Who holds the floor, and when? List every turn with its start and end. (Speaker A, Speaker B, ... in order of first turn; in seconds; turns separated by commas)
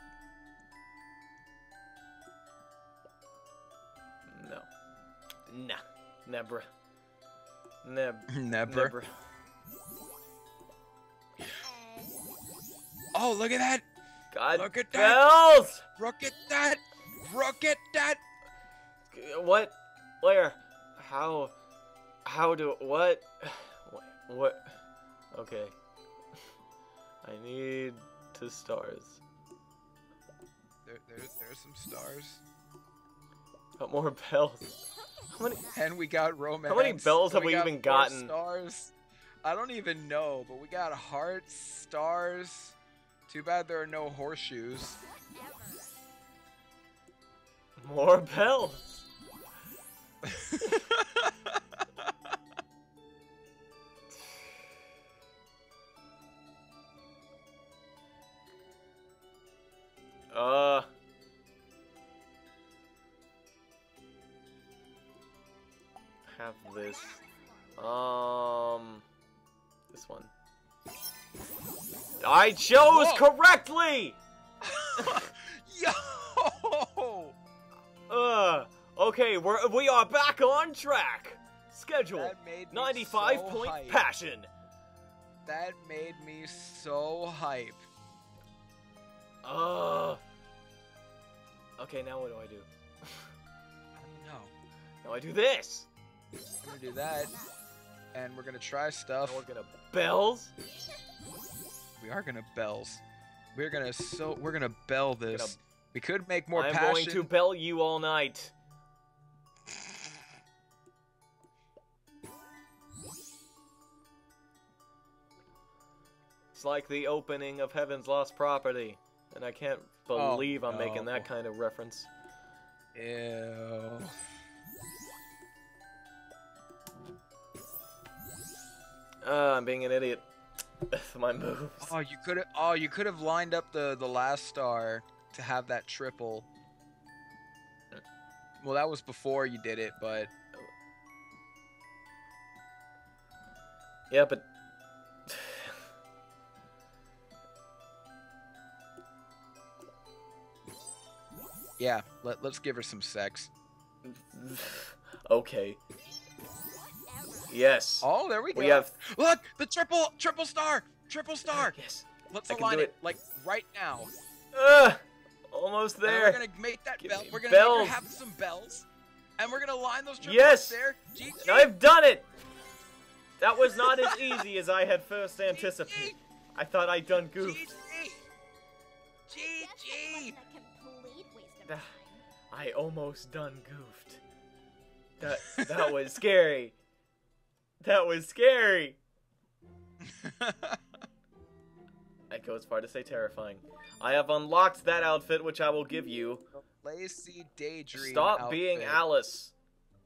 Speaker A: 4.3-4.7, Speaker A: 5.5-6.7, Speaker A: 7.8-9.1, Speaker B: 8.3-8.9, Speaker C: 11.6-12.2, Speaker B: 13.1-13.8, Speaker A: 14.3-15.8, Speaker B: 14.5-15.2, Speaker B: 16.0-18.2, Speaker A: 19.1-21.5, Speaker A: 22.2-24.7, Speaker A: 25.3-25.7, Speaker A: 27.2-29.2, Speaker B: 30.8-32.4, Speaker A: 33.8-34.7, Speaker C: 35.0-35.9, Speaker A: 35.3-35.6, Speaker B: 35.7-42.8, Speaker A: 36.6-38.3, Speaker B: 43.3-45.0, Speaker C: 45.0-45.9, Speaker A: 47.8-48.8, Speaker B: 50.2-51.3, Speaker A: 60.3-60.9, Speaker A: 66.3-67.2, Speaker C: 66.8-68.0, Speaker A: 67.8-69.0, Speaker A: 69.9-70.3, Speaker C: 71.9-72.8, Speaker A: 72.2-74.2, Speaker B: 72.9-73.2, Speaker B: 74.6-77.3, Speaker A: 78.1-84.5, Speaker B: 82.1-84.0, Speaker B: 85.4-87.8, Speaker A: 89.4-90.2, Speaker A: 91.8-93.3, Speaker B: 94.0-94.5, Speaker A: 95.0-95.9, Speaker B: 96.6-97.3, Speaker C: 97.0-97.5, Speaker B: 98.1-99.4, Speaker A: 99.2-100.5, Speaker B: 102.0-103.0, Speaker B: 103.5-107.3, Speaker A: 105.3-105.6, Speaker A: 106.5-108.5, Speaker A: 116.5-122.1, Speaker B: 120.1-121.3, Speaker B: 122.9-124.2, Speaker A: 129.2-130.3, Speaker A: 130.9-131.9, Speaker B: 131.8-136.5, Speaker B: 138.6-140.3, Speaker A: 144.1-144.5, Speaker A: 145.3-145.8, Speaker B: 151.8-153.5, Speaker A: 154.0-155.8, Speaker C: 156.9-157.6, Speaker A: 157.5-158.9, Speaker B: 158.0-161.7, Speaker A: 161.5-162.9, Speaker B: 162.3-164.1, Speaker A: 164.5-166.4, Speaker B: 166.0-168.9, Speaker A: 167.0-168.0, Speaker B: 169.4-171.7, Speaker A: 170.2-170.8, Speaker A: 171.4-172.2, Speaker A: 173.4-177.7, Speaker B: 173.6-174.4, Speaker B: 175.5-176.1, Speaker B: 177.3-178.2, Speaker C: 179.3-182.2, Speaker B: 179.3-180.3, Speaker A: 182.5-184.2, Speaker A: 185.2-186.8, Speaker B: 185.4-185.9, Speaker A: 187.8-189.0, Speaker B: 190.0-191.0, Speaker A: 192.3-196.4, Speaker B: 196.5-199.0, Speaker A: 197.9-199.5